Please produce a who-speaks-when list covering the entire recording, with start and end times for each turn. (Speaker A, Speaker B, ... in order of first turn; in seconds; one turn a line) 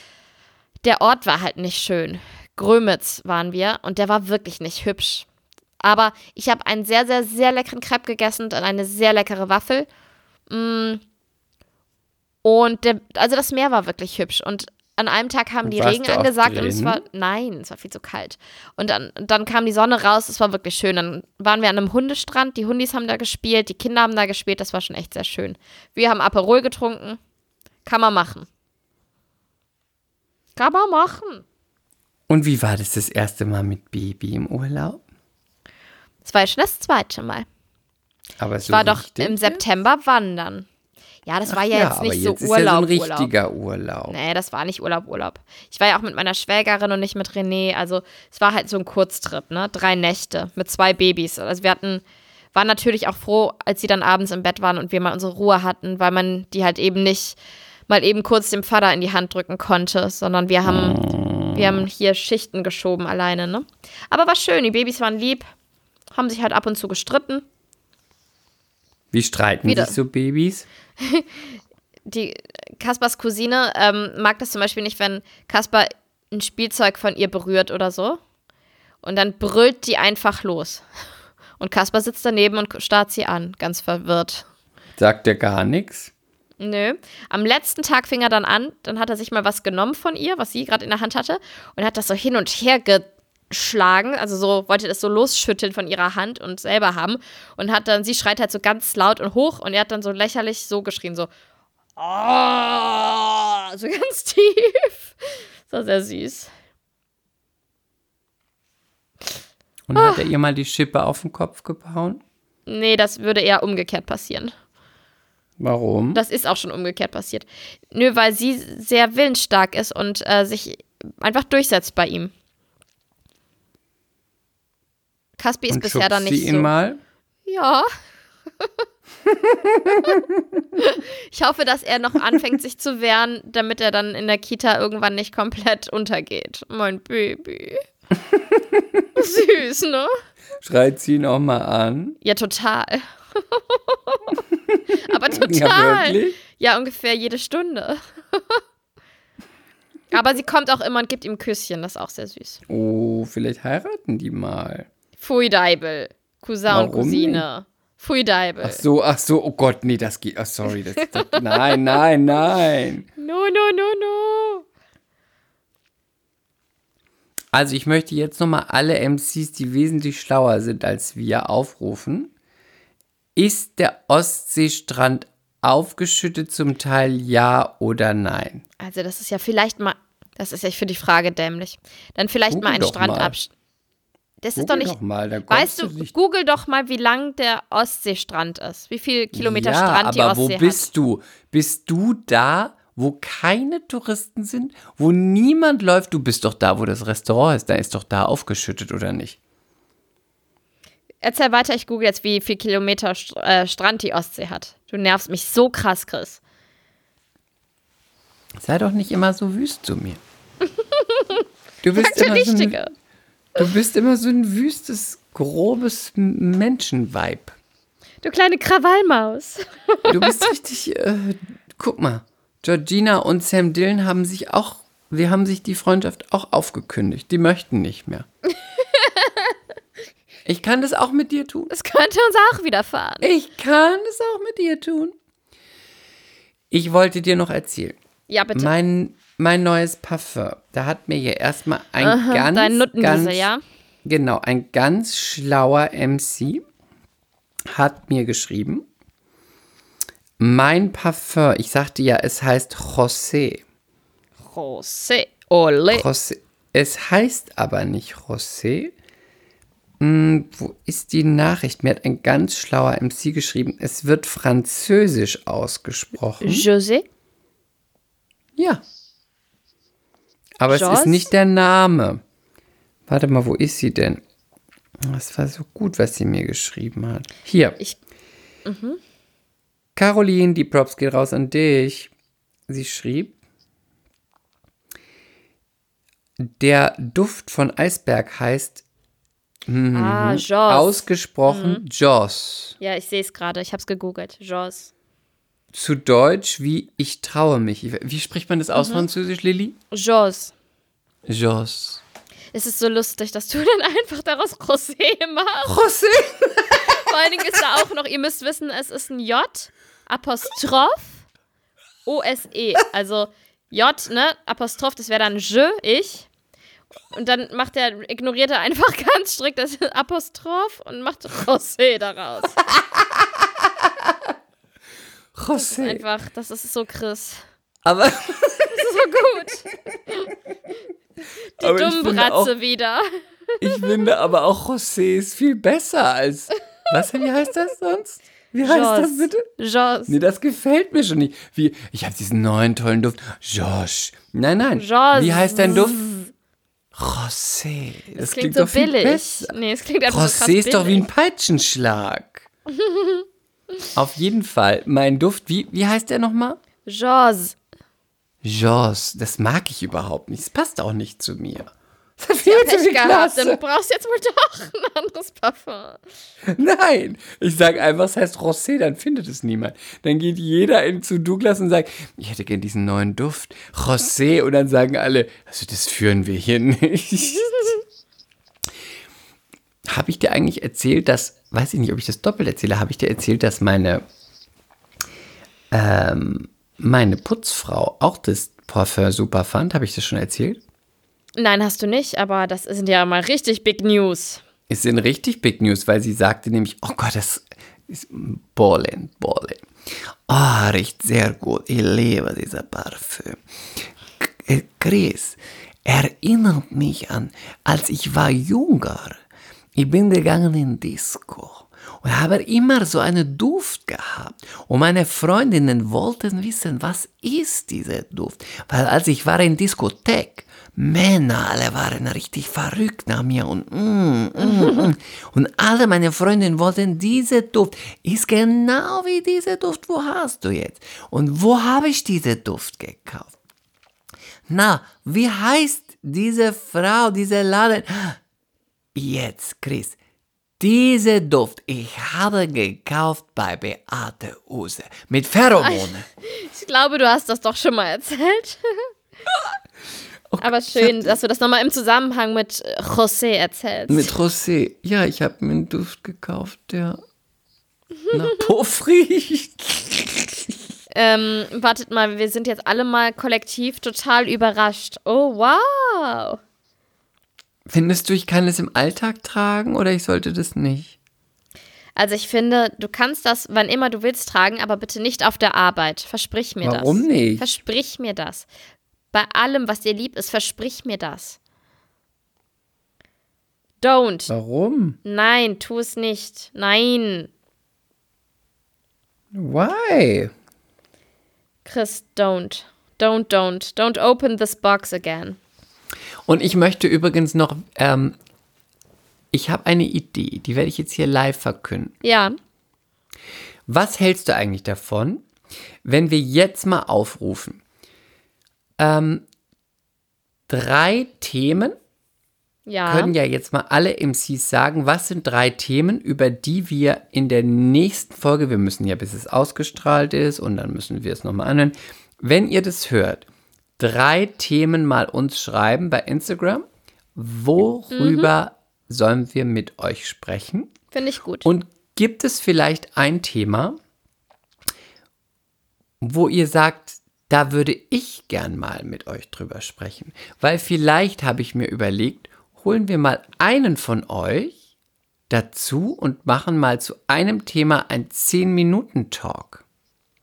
Speaker A: 0.8-5.2
Speaker A: 5.8-9.9
Speaker A: 10.5-11.0
Speaker A: 12.4-27.2
Speaker B: 15.6-17.0
Speaker A: 27.8-28.5
Speaker A: 30.6-31.4
Speaker B: 32.3-35.0
Speaker A: 36.2-37.5
Speaker B: 38.4-39.6
Speaker A: 38.6-40.7
Speaker A: 41.2-43.3
Speaker B: 41.5-44.2
Speaker A: 44.1-52.0
Speaker A: 52.5-57.4
Speaker A: 57.9-65.5
Speaker B: 60.7-61.6
Speaker A: 66.1-67.4
Speaker B: 69.1-70.7
Speaker A: 69.6-70.0
Speaker A: 71.0-71.3
Speaker A: 72.1-78.2
Speaker A: 79.0-80.8
Speaker A: 81.6-84.4
Speaker B: 85.0-86.1
Speaker A: 86.6-101.3
Speaker A: 102.0-105.1
Speaker A: 105.7-106.5
Speaker B: 109.9-112.2
Speaker A: 110.0-110.2
Speaker A: 112.7-114.5
Speaker B: 115.6-116.2
Speaker A: 116.1-122.3
Speaker A: 125.4-126.7
Speaker B: 125.7-127.0
Speaker A: 127.5-127.9
Speaker B: 129.7-130.4
Speaker A: 130.8-137.8
Speaker B: 138.3-139.0
Speaker A: 139.2-140.1
Speaker B: 140.6-142.2
Speaker A: 142.2-144.4
Speaker A: 145.0-148.6
Speaker B: 145.1-146.4
Speaker A: 150.1-152.6
Speaker B: 152.7-154.9
Speaker A: 155.2-158.8
Speaker B: 156.7-157.4
Speaker B: 158.6-163.1
Speaker A: 161.0-161.9
Speaker A: 163.2-164.6
Speaker B: 167.5-172.3
Speaker B: 173.3-178.6
Speaker A: 178.8-183.5
Speaker B: 182.5-183.3
Speaker A: 184.4-184.9
Speaker B: 184.6-186.1
Speaker A: 185.5-190.9
Speaker B: 189.3-199.4
Speaker A: 201.2-206.4
Speaker B: 208.6-210.2
Speaker A: 210.8-211.4
Speaker B: 211.8-212.8
Speaker A: 212.0-212.9
Speaker B: 213.6-217.6
Speaker A: 218.2-220.5
Speaker B: 220.1-228.3
Speaker A: 228.8-229.5
Speaker B: 230.4-231.7
Speaker A: 231.7-233.3
Speaker B: 233.2-235.1
Speaker B: 236.7-238.0
Speaker A: 238.3-238.7
Speaker B: 238.5-243.5
Speaker A: 242.0-243.6
Speaker B: 244.0-246.6
Speaker B: 247.7-248.9
Speaker B: 250.4-253.6
Speaker A: 254.4-256.1
Speaker B: 255.9-258.9
Speaker B: 260.0-266.6
Speaker A: 266.4-267.1
Speaker B: 268.6-268.8
Speaker B: 270.6-272.2
Speaker A: 270.7-271.3
Speaker B: 273.1-274.2
Speaker B: 275.0-277.8
Speaker A: 278.6-279.0
Speaker B: 279.9-282.1
Speaker B: 282.7-283.4
Speaker B: 286.4-288.8
Speaker B: 289.7-292.8
Speaker A: 289.9-291.8
Speaker A: 292.8-294.9
Speaker B: 295.7-299.8
Speaker A: 298.7-299.1
Speaker A: 299.9-300.5
Speaker B: 301.3-302.0
Speaker A: 302.5-305.8
Speaker B: 305.6-307.1
Speaker A: 306.8-311.2
Speaker A: 312.1-316.3
Speaker A: 317.1-322.6
Speaker B: 322.7-323.2
Speaker B: 323.9-324.1
Speaker B: 325.3-326.0
Speaker A: 325.5-327.4
Speaker B: 327.8-329.1
Speaker A: 328.7-330.2
Speaker A: 331.6-333.9
Speaker B: 331.6-332.5
Speaker B: 333.6-339.4
Speaker A: 338.6-340.2
Speaker B: 340.1-346.1
Speaker A: 344.7-346.3
Speaker B: 346.9-349.5
Speaker A: 348.1-351.1
Speaker B: 350.1-352.4
Speaker A: 352.8-353.2
Speaker B: 353.9-356.6
Speaker A: 356.9-357.6
Speaker B: 358.4-363.6
Speaker A: 362.4-366.0
Speaker B: 366.4-377.8
Speaker B: 379.8-384.0
Speaker B: 385.7-390.6
Speaker A: 391.4-394.4
Speaker B: 394.7-399.7
Speaker B: 400.3-409.2
Speaker B: 409.7-433.3
Speaker B: 434.5-438.2
Speaker B: 438.9-440.0
Speaker B: 440.6-446.1
Speaker A: 445.6-448.9
Speaker B: 450.3-451.2
Speaker A: 450.4-454.1
Speaker B: 453.9-457.0
Speaker B: 458.1-460.6
Speaker A: 460.9-466.4
Speaker B: 467.7-470.9
Speaker A: 471.9-478.5
Speaker B: 476.6-477.5
Speaker A: 479.1-481.4
Speaker A: 483.8-484.3
Speaker B: 484.3-485.0
Speaker A: 485.0-487.3
Speaker B: 489.3-490.3
Speaker A: 491.6-495.4
Speaker B: 496.2-498.1
Speaker B: 499.3-501.9
Speaker A: 502.0-502.4
Speaker B: 503.7-505.2
Speaker B: 505.8-507.6
Speaker B: 508.8-509.2
Speaker B: 510.5-511.8
Speaker A: 512.6-513.1
Speaker B: 512.9-523.2
Speaker B: 523.8-530.7
Speaker A: 527.9-528.3
Speaker A: 530.9-531.5
Speaker B: 531.4-533.8
Speaker B: 536.0-544.6
Speaker B: 545.3-549.6